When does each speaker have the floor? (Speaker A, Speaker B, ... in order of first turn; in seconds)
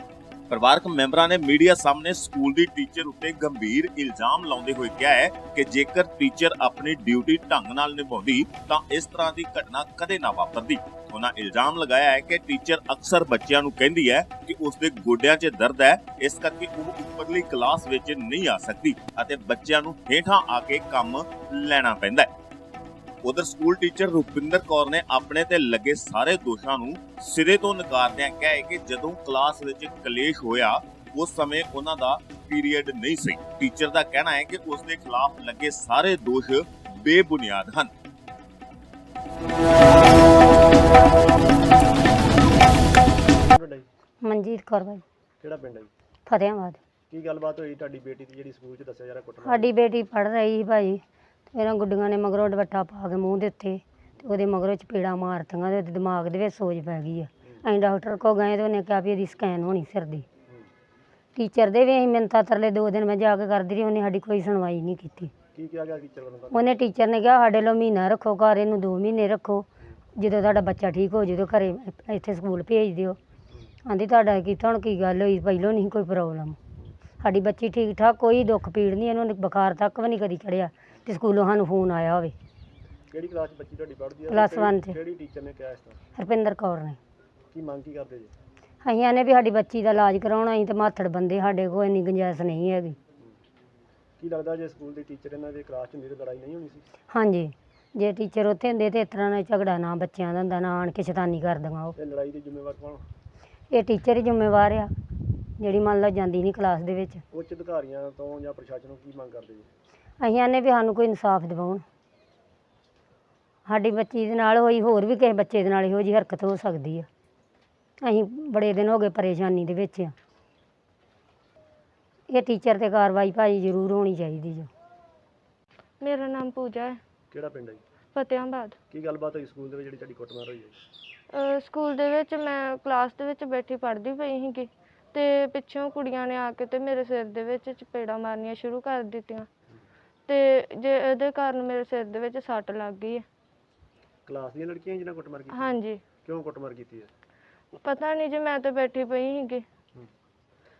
Speaker A: 0.5-22.3, 23.2-37.9
Speaker B: 43.4-43.9, 45.4-45.9, 47.1-49.7, 65.5-66.7, 83.1-86.0, 87.5-88.3, 94.2-96.9, 102.0-103.0, 107.3-109.7, 127.3-127.8, 128.9-130.7, 144.3-147.1
Speaker C: 44.2-45.0, 46.3-46.8, 49.4-51.0, 51.5-60.2, 61.4-65.3, 66.5-69.7, 70.2-73.2, 73.8-76.6, 77.2-82.3, 84.3-84.9, 86.2-87.0, 88.8-93.0, 97.1-101.9, 103.7-104.9, 105.6-107.2, 110.2-111.8, 113.7-117.1, 118.0-120.1, 122.3-124.7
Speaker D: 126.0-127.0, 128.1-128.7, 131.3-139.5, 140.3-143.2, 145.5-146.0, 147.8-149.6